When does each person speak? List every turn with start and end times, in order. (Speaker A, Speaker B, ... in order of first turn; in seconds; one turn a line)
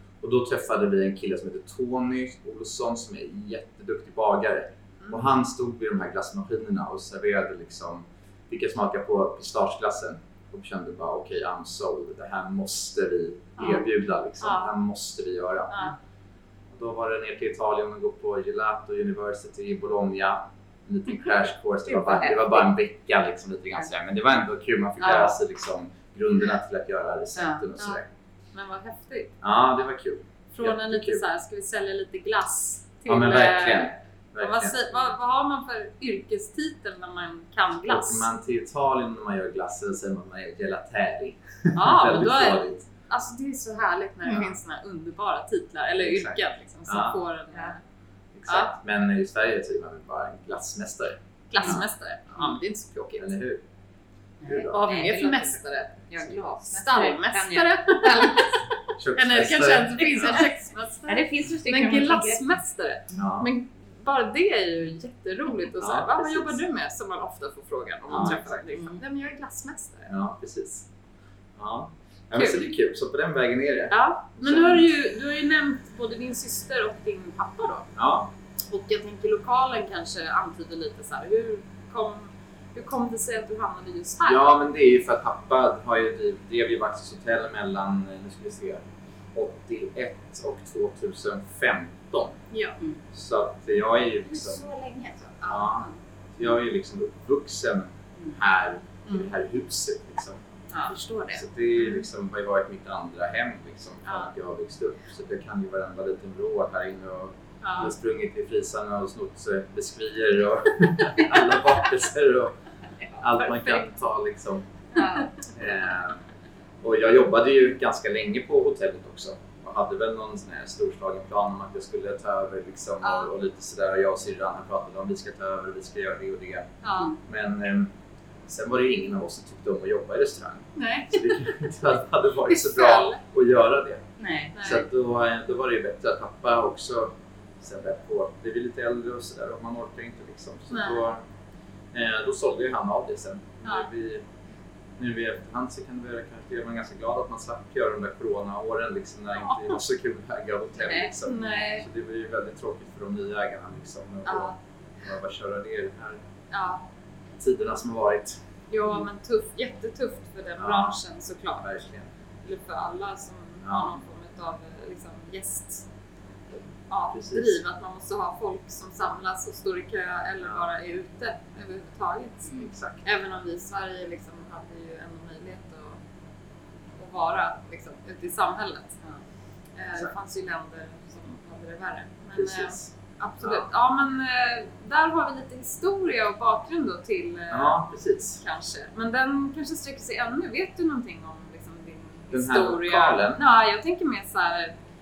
Speaker A: 0.2-15.7
Speaker B: 5.0-5.2
Speaker B: 13.6-13.9
Speaker B: 14.4-14.7
Speaker B: 15.7-16.0
Speaker A: 16.7-28.1
Speaker B: 21.9-22.7
Speaker B: 25.0-25.4
Speaker B: 28.5-29.3
Speaker A: 29.4-31.2
Speaker B: 30.5-38.3
Speaker A: 33.1-35.1
Speaker A: 37.9-42.8
Speaker B: 41.8-47.8
Speaker A: 46.0-47.2
Speaker A: 48.3-52.6
Speaker B: 51.5-53.4
Speaker A: 53.2-53.6
Speaker C: 54.4-58.4
Speaker A: 54.5-54.8
Speaker B: 54.5-70.1
Speaker A: 59.0-60.5
Speaker C: 60.1-60.4
Speaker C: 61.1-62.5
Speaker A: 63.1-63.5
Speaker A: 65.8-66.6
Speaker A: 68.1-68.7
Speaker A: 70.1-70.9
Speaker A: 71.6-74.9
Speaker B: 72.3-72.7
Speaker B: 73.9-77.9
Speaker A: 78.0-78.3
Speaker B: 78.7-84.5
Speaker A: 84.2-92.4
Speaker B: 92.5-92.8
Speaker A: 93.1-94.7
Speaker C: 94.5-95.4
Speaker B: 95.4-95.9
Speaker A: 95.4-100.4
Speaker B: 100.8-102.0
Speaker A: 101.3-112.6
Speaker B: 104.0-104.3
Speaker B: 107.6-107.9
Speaker A: 113.2-114.9
Speaker B: 113.2-113.8
Speaker B: 114.9-115.5
Speaker C: 115.0-115.3
Speaker A: 115.4-116.2
Speaker A: 116.8-127.9
Speaker B: 123.0-123.3
Speaker B: 126.8-127.2
Speaker A: 128.5-134.0
Speaker B: 130.8-131.7
Speaker B: 132.5-133.2
Speaker C: 134.2-134.5
Speaker B: 134.6-134.9
Speaker A: 134.6-141.2
Speaker B: 140.7-141.1
Speaker A: 141.9-144.2
Speaker A: 145.0-156.2
Speaker B: 149.4-149.8
Speaker B: 150.8-151.9
Speaker B: 154.3-154.6
Speaker B: 156.5-156.8
Speaker A: 157.3-158.4
Speaker B: 158.7-161.8
Speaker A: 160.6-160.9
Speaker A: 161.6-162.1
Speaker B: 162.4-165.9
Speaker A: 163.6-164.0
Speaker B: 166.9-176.0
Speaker A: 167.1-167.6
Speaker A: 170.4-170.7
Speaker A: 172.6-173.0
Speaker B: 177.0-179.0
Speaker B: 179.8-187.8
Speaker A: 182.4-182.9
Speaker A: 183.4-183.7
Speaker A: 187.5-188.4
Speaker B: 188.4-194.7
Speaker A: 192.3-193.4